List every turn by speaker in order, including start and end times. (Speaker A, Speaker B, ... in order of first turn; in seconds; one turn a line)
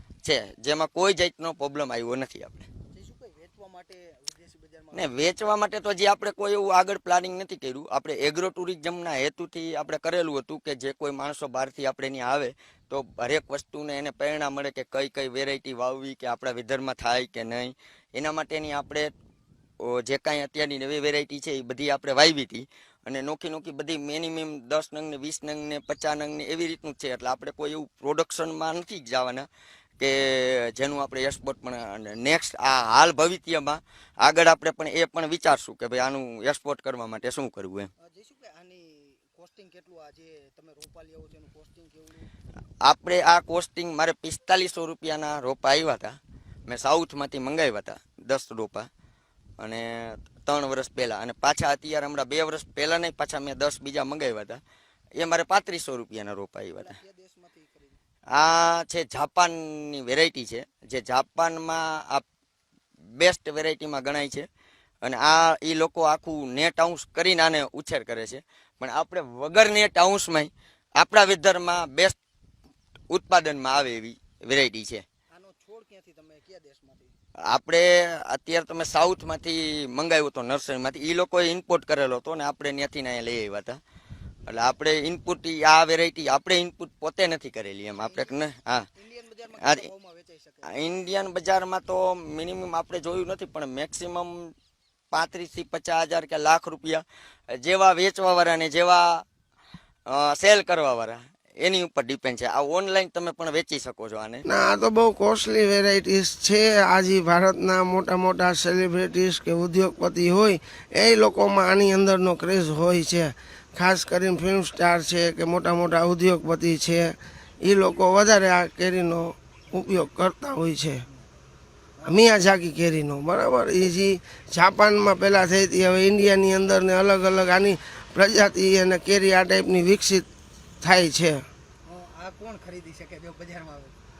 Speaker A: 0.2-2.7
Speaker B: 2.9-5.2
Speaker A: 4.9-19.1
Speaker A: 19.8-29.5
Speaker A: 30.0-37.9
Speaker B: 38.0-42.3
Speaker A: 42.8-46.2
Speaker A: 46.7-48.9
Speaker A: 49.6-54.6
Speaker A: 55.2-57.0
Speaker B: 56.8-58.0
Speaker A: 58.3-62.2
Speaker A: 63.2-64.5
Speaker A: 65.0-72.2
Speaker A: 73.1-75.0
Speaker B: 75.3-77.1
Speaker A: 77.5-83.8
Speaker A: 84.5-88.9
Speaker B: 88.0-88.3
Speaker B: 88.9-91.0
Speaker A: 89.6-89.9
Speaker A: 90.7-94.5
Speaker A: 95.1-99.3
Speaker A: 100.1-104.5
Speaker C: 104.5-121.0
Speaker C: 122.0-130.3
Speaker C: 130.8-131.5
Speaker B: 131.9-133.9